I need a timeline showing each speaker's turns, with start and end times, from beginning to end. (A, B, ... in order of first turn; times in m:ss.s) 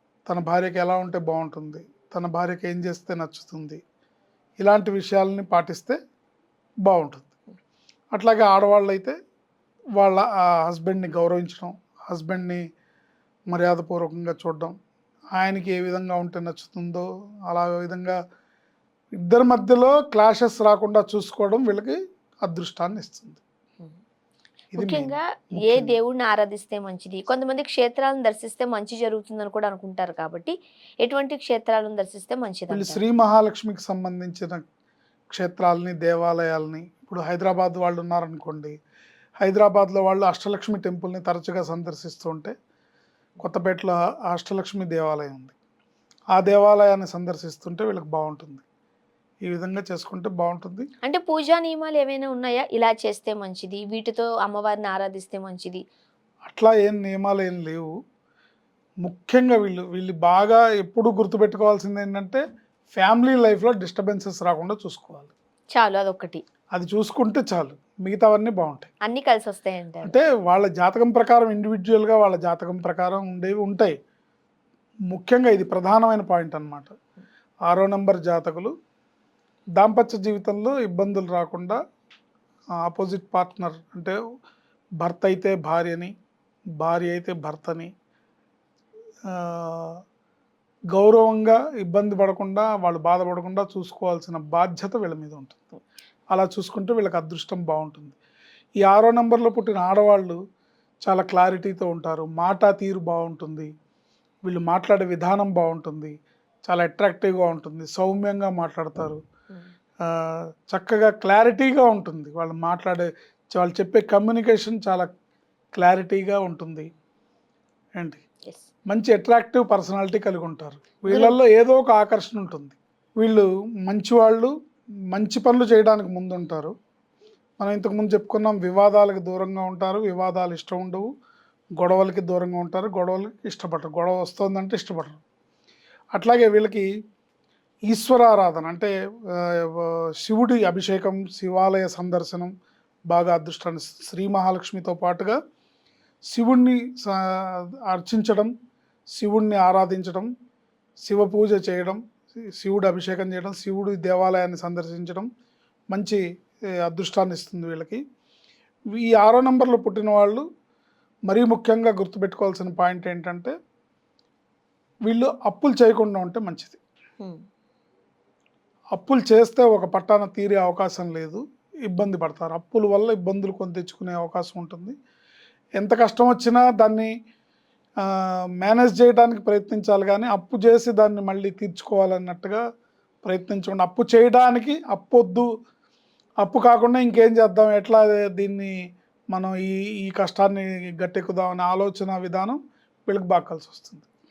0:00.3-0:03.8 A
0:04.6-0:06.0 A
0:06.8-0:07.3 A
0:08.1-0:09.2 A
0:10.0-0:12.6 A
0:13.5-0:14.8 A
0:15.4-0:18.2 A
0:19.2-0:23.4 A
0:24.8-0:26.0 A
0:24.8-0:33.0 B
0:32.7-0:34.6 A
0:35.3-0:38.7 A
0:39.4-0:42.5 A
0:43.4-0:45.6 A
0:46.3-0:48.6 A
0:49.4-0:50.9 A
0:51.0-0:55.8 B
0:56.4-0:57.9 A
0:59.0-1:02.4 A
1:02.9-1:05.3 A
1:05.7-1:06.4 B
1:06.7-1:08.9 A
1:09.0-1:10.2 B
1:10.1-1:14.0 A
1:15.1-1:17.0 A
1:17.7-1:18.7 A
1:19.8-1:21.8 A
1:22.8-1:24.2 A
1:25.0-1:26.1 A
1:26.8-1:27.9 A
1:29.3-1:30.0 A
1:30.9-1:35.7 A
1:36.3-1:38.2 A
1:38.8-1:40.4 A
1:41.0-1:43.7 A
1:44.5-1:49.2 A
1:50.0-1:55.1 A
1:55.8-1:56.9 A
1:58.9-2:04.5 A
2:01.1-2:01.4 B
2:05.1-2:06.7 A
2:07.6-2:11.1 A
2:11.8-2:15.2 A
2:16.2-2:16.9 A
2:17.9-2:22.5 A
2:23.1-2:25.4 A
2:26.3-2:28.5 A
2:29.1-2:30.3 A
2:31.0-2:35.3 A
2:35.9-2:36.2 A
2:36.8-2:38.0 A
2:38.9-2:40.4 A
2:41.3-2:43.5 A
2:45.1-2:46.8 A
2:48.9-2:55.0 A
2:55.8-2:57.1 A
2:58.0-3:02.6 A
3:03.2-3:05.5 A
3:06.4-3:08.7 A
3:09.3-3:14.1 A